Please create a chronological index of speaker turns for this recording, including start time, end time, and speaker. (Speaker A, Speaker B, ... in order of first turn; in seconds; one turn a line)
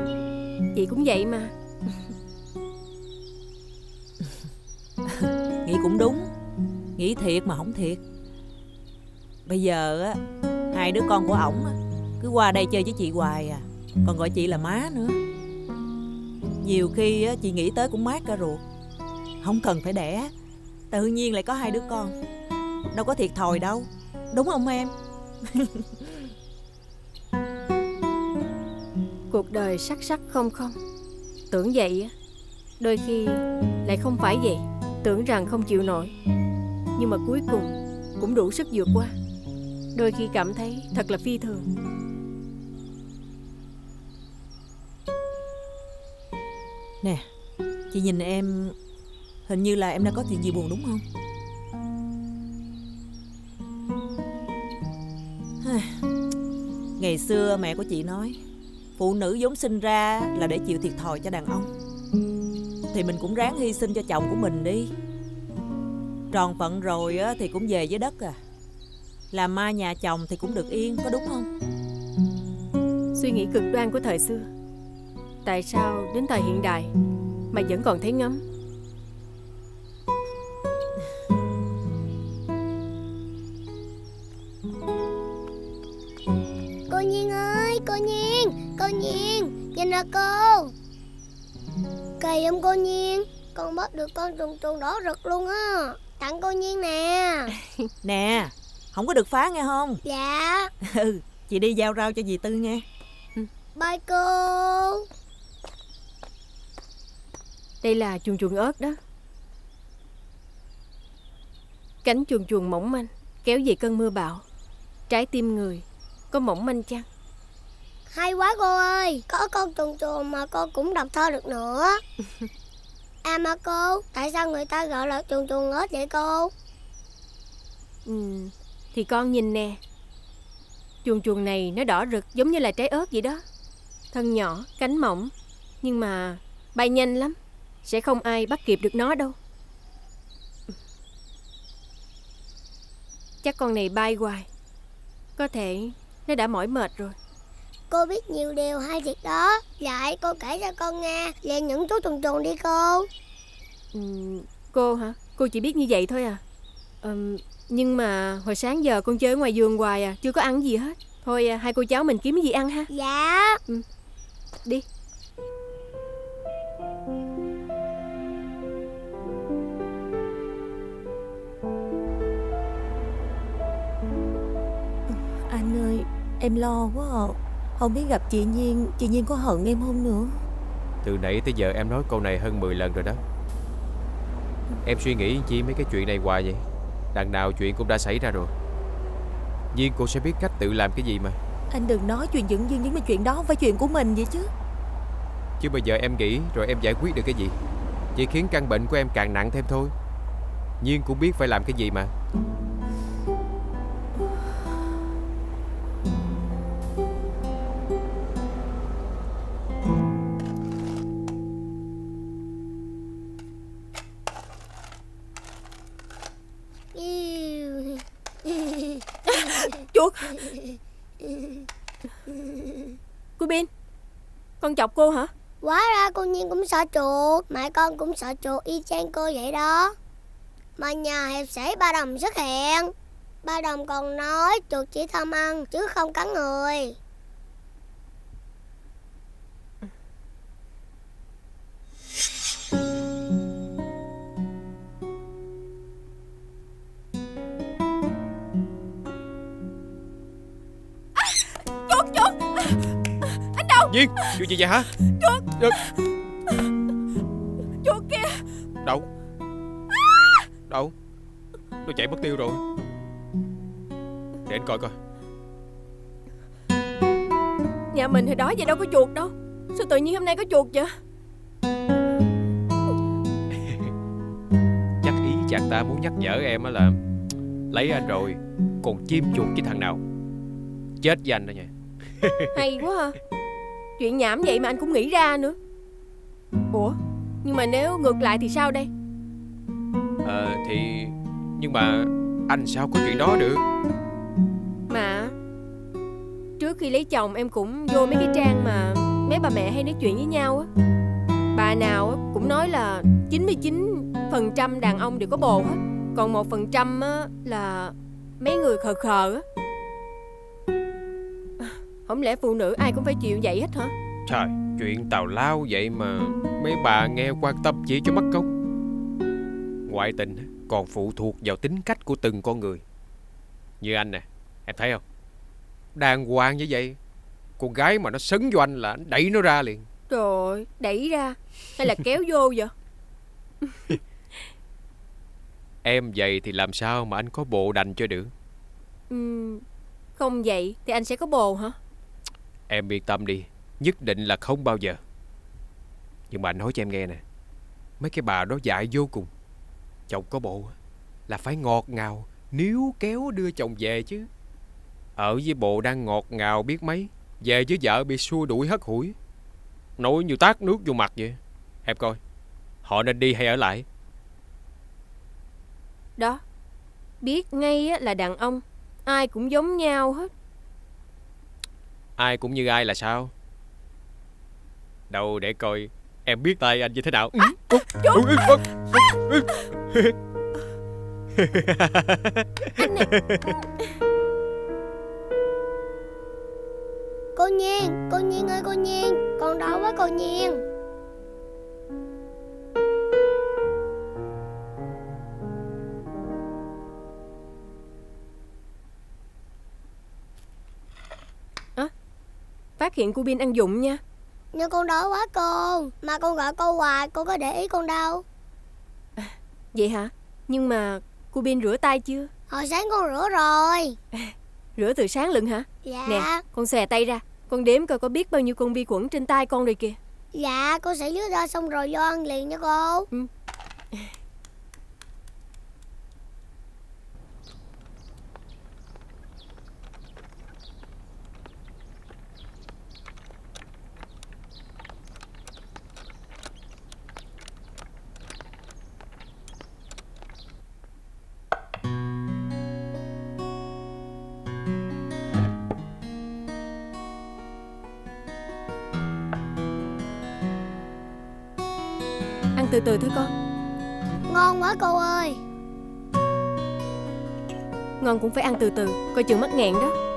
Speaker A: 0.7-1.5
Speaker B: 5.1-6.3
Speaker B: 7.0-8.0
Speaker B: 9.5-10.2
Speaker B: 10.7-15.2
Speaker B: 16.6-18.6
Speaker B: 19.4-20.3
Speaker B: 20.9-22.1
Speaker B: 22.9-24.9
Speaker B: 25.5-26.1
Speaker A: 29.3-30.8
Speaker A: 31.5-32.1
Speaker A: 32.8-36.1
Speaker A: 37.0-39.1
Speaker A: 39.9-41.7
Speaker B: 47.0-47.3
Speaker B: 47.9-48.8
Speaker B: 49.5-51.0
Speaker B: 55.6-55.9
Speaker B: 57.0-58.4
Speaker B: 59.0-61.7
Speaker B: 62.9-64.9
Speaker B: 66.3-68.4
Speaker B: 69.3-71.5
Speaker A: 73.1-74.5
Speaker A: 75.4-76.9
Speaker A: 77.5-78.4
Speaker C: 86.9-90.7
Speaker C: 92.2-97.5
Speaker B: 98.0-100.0
Speaker C: 100.0-100.7
Speaker B: 100.8-102.8
Speaker C: 103.8-105.1
Speaker A: 107.8-109.0
Speaker A: 112.0-114.4
Speaker A: 115.1-117.1
Speaker C: 118.1-122.0
Speaker C: 123.2-126.5
Speaker A: 128.1-129.8
Speaker A: 131.0-133.4
Speaker A: 134.1-139.4
Speaker A: 143.4-144.5
Speaker A: 145.4-147.2
Speaker C: 147.9-153.1
Speaker A: 153.9-156.4
Speaker A: 157.0-162.9
Speaker C: 162.9-163.6
Speaker D: 175.1-180.4
Speaker E: 181.0-183.2
Speaker E: 184.8-188.5
Speaker E: 189.7-191.4
Speaker D: 191.7-194.5
Speaker E: 195.6-197.6
Speaker E: 198.2-199.9
Speaker E: 200.8-202.1
Speaker C: 216.9-219.8
Speaker A: 219.3-220.4
Speaker C: 220.5-221.6
Speaker C: 222.3-222.9
Speaker A: 223.4-223.7
Speaker A: 224.6-225.3
Speaker C: 225.6-230.0
Speaker C: 230.8-232.9
Speaker C: 233.4-237.0
Speaker A: 251.2-254.4
Speaker E: 253.9-254.9
Speaker A: 255.1-255.9
Speaker A: 257.8-258.4
Speaker E: 258.8-259.1
Speaker E: 260.7-260.9
Speaker E: 261.8-262.6
Speaker E: 264.5-264.9
Speaker A: 267.9-270.9
Speaker E: 273.7-273.9
Speaker E: 275.0-277.0
Speaker E: 277.7-280.0
Speaker E: 281.0-282.5
Speaker A: 282.5-283.2
Speaker A: 284.0-285.6
Speaker A: 286.7-288.9
Speaker E: 290.2-293.6
Speaker A: 294.9-295.3
Speaker A: 296.6-300.7
Speaker A: 301.5-309.4
Speaker A: 311.6-313.9
Speaker E: 314.3-318.5
Speaker E: 319.9-322.8
Speaker E: 323.8-325.0
Speaker E: 326.0-327.0
Speaker E: 327.6-329.9
Speaker A: 330.1-332.7
Speaker E: 335.8-338.3
Speaker A: 339.1-339.6
Speaker A: 340.2-341.8
Speaker E: 342.7-345.0
Speaker E: 346.3-347.2
Speaker E: 348.0-349.3
Speaker E: 350.1-350.8
Speaker E: 351.3-354.3
Speaker E: 355.2-359.2
Speaker E: 360.0-362.2
Speaker E: 362.8-363.9
Speaker A: 366.2-366.4
Speaker A: 367.2-370.3
Speaker E: 372.2-373.3
Speaker E: 375.1-380.1
Speaker A: 377.4-378.3
Speaker E: 381.4-383.5
Speaker A: 382.8-383.1
Speaker C: 387.4-390.6
Speaker A: 402.8-404.0
Speaker C: 404.5-408.2
Speaker A: 409.2-412.3
Speaker C: 412.5-414.0
Speaker A: 414.1-420.0
Speaker C: 415.8-416.4
Speaker C: 420.3-423.1
Speaker A: 452.6-453.3
Speaker C: 454.3-455.4
Speaker A: 458.0-459.9